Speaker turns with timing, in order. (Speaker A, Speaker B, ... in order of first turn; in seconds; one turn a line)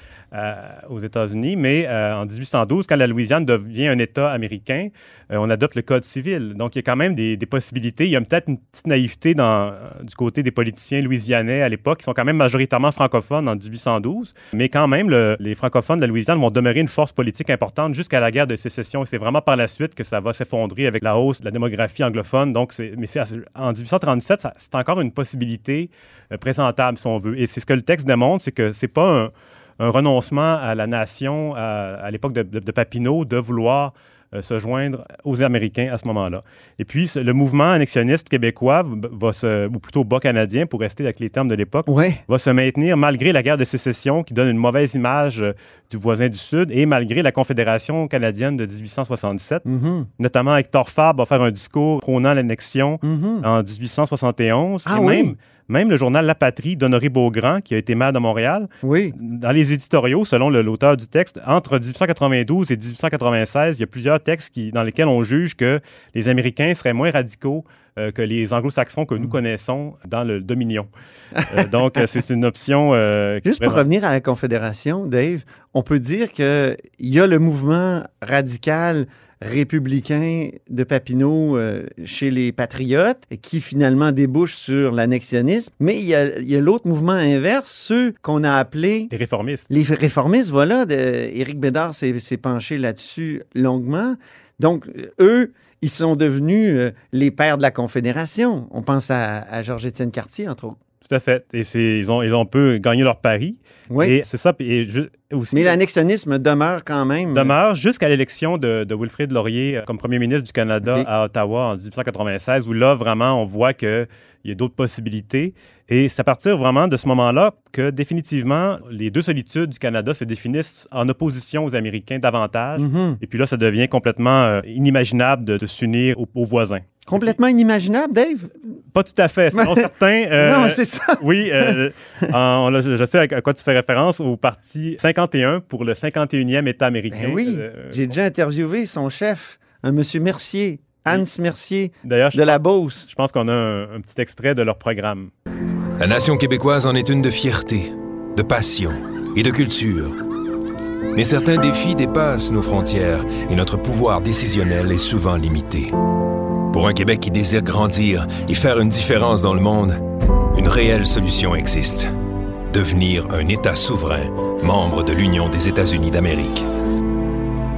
Speaker A: 0.3-49.6
Speaker B: 41.9-42.2
Speaker B: 49.6-50.1
Speaker A: 50.2-70.9
Speaker B: 53.0-53.5
Speaker B: 54.9-55.3
Speaker B: 58.8-59.1
Speaker B: 71.4-71.6
Speaker A: 71.5-73.8
Speaker B: 73.4-89.1
Speaker A: 89.1-89.7
Speaker B: 89.7-100.8
Speaker A: 101.0-105.8
Speaker B: 105.5-107.5
Speaker A: 107.3-127.3
Speaker B: 122.8-123.2
Speaker B: 127.1-128.5
Speaker A: 128.9-138.1
Speaker B: 129.5-131.8
Speaker B: 137.1-143.1
Speaker A: 142.1-145.3
Speaker C: 146.0-150.2
Speaker C: 151.1-155.9
Speaker C: 156.7-160.0
Speaker C: 160.5-162.1
Speaker C: 162.7-166.7